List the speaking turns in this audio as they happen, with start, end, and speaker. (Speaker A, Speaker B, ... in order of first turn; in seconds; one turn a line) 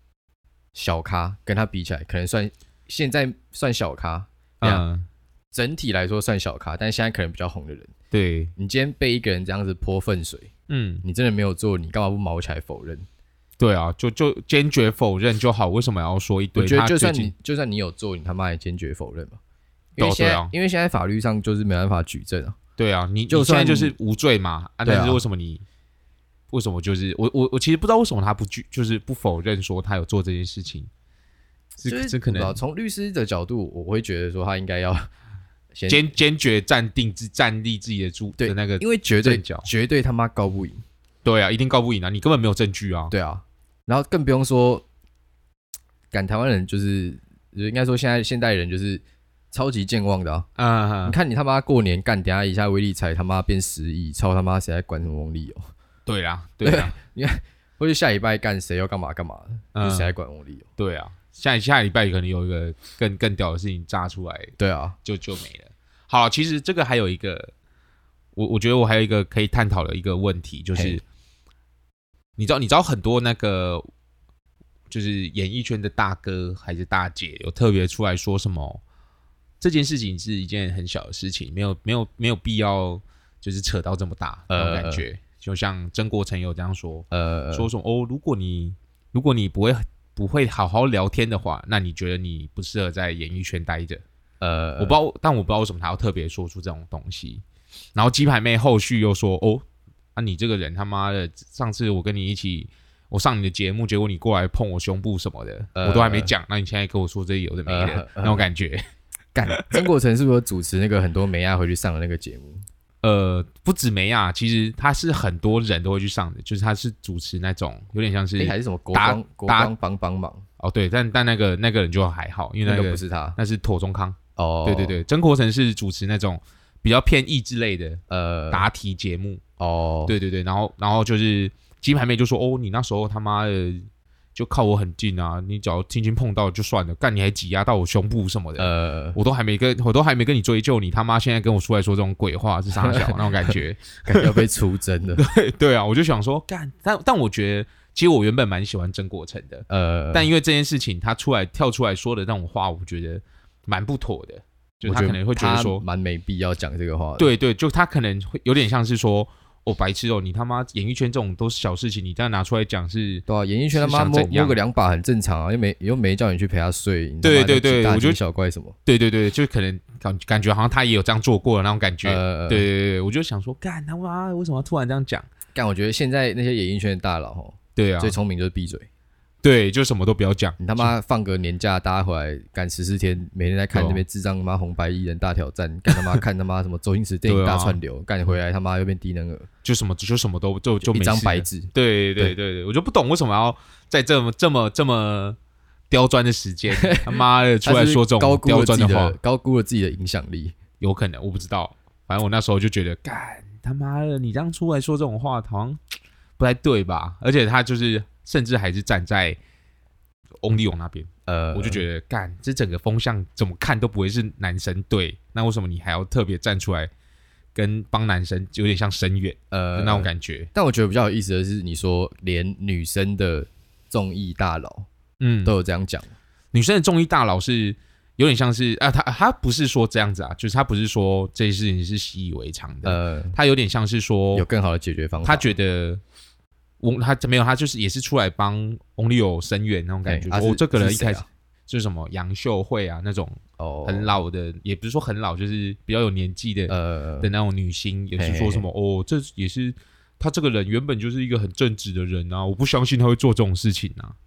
Speaker A: 0.7-4.8
Speaker B: 4.6-5.1
Speaker A: 5.5-7.9
Speaker B: 8.1-8.5
Speaker A: 8.6-10.5
Speaker B: 10.7-11.0
Speaker A: 11.0-13.0
Speaker B: 13.6-17.3
Speaker A: 16.6-19.4
Speaker A: 20.0-22.6
Speaker B: 20.0-20.5
Speaker B: 22.8-25.6
Speaker A: 23.3-23.9
Speaker A: 24.8-25.2
Speaker B: 26.5-30.9
Speaker B: 31.8-32.6
Speaker A: 31.8-35.1
Speaker A: 35.7-36.1
Speaker B: 35.9-39.7
Speaker A: 38.4-40.8
Speaker B: 41.2-43.1
Speaker A: 43.1-44.8
Speaker A: 46.1-50.5
Speaker B: 50.6-51.2
Speaker A: 51.0-55.6
Speaker B: 56.0-56.9
Speaker A: 56.6-60.6
Speaker B: 59.7-60.1
Speaker B: 60.8-67.5
Speaker A: 64.6-65.0
Speaker B: 68.3-71.0
Speaker A: 70.7-71.0
Speaker B: 72.4-73.8
Speaker B: 74.9-78.8
Speaker B: 79.6-94.0
Speaker A: 84.5-85.0
Speaker A: 87.1-87.7
Speaker A: 94.4-95.0
Speaker B: 94.8-97.4
Speaker B: 97.9-99.6
Speaker B: 100.2-108.8
Speaker A: 105.8-106.3
Speaker A: 107.7-108.5
Speaker A: 109.3-112.6
Speaker B: 109.5-109.8
Speaker B: 113.0-119.7
Speaker A: 118.4-120.4
Speaker B: 120.6-129.4
Speaker A: 122.6-123.4
Speaker A: 124.3-125.0
Speaker A: 128.1-128.7
Speaker A: 129.6-130.1
Speaker B: 130.1-144.4
Speaker A: 138.6-139.2
Speaker A: 142.8-143.5
Speaker A: 144.1-145.2
Speaker B: 145.2-155.8
Speaker A: 149.7-150.3
Speaker A: 154.8-157.3
Speaker B: 157.2-164.6
Speaker A: 163.3-168.7
Speaker B: 167.2-168.2
Speaker B: 168.8-175.3
Speaker A: 172.0-172.7
Speaker A: 175.5-178.9
Speaker B: 177.8-178.2
Speaker B: 179.4-180.9
Speaker A: 180.6-189.5
Speaker B: 183.7-184.0
Speaker B: 185.9-186.2
Speaker B: 187.2-187.8
Speaker B: 189.6-195.4
Speaker A: 190.8-192.3
Speaker B: 195.9-199.2
Speaker A: 196.7-200.5
Speaker B: 200.8-205.8
Speaker B: 206.4-209.4
Speaker B: 210.4-216.9
Speaker A: 211.2-211.8
Speaker B: 217.5-220.5
Speaker A: 219.5-224.9
Speaker B: 225.2-225.5
Speaker A: 225.4-226.1
Speaker B: 226.5-234.4
Speaker A: 232.8-233.3
Speaker A: 234.3-235.5
Speaker B: 235.2-236.0
Speaker B: 236.8-254.1
Speaker A: 240.1-241.2
Speaker A: 243.6-244.2
Speaker A: 246.7-247.3
Speaker A: 248.2-248.7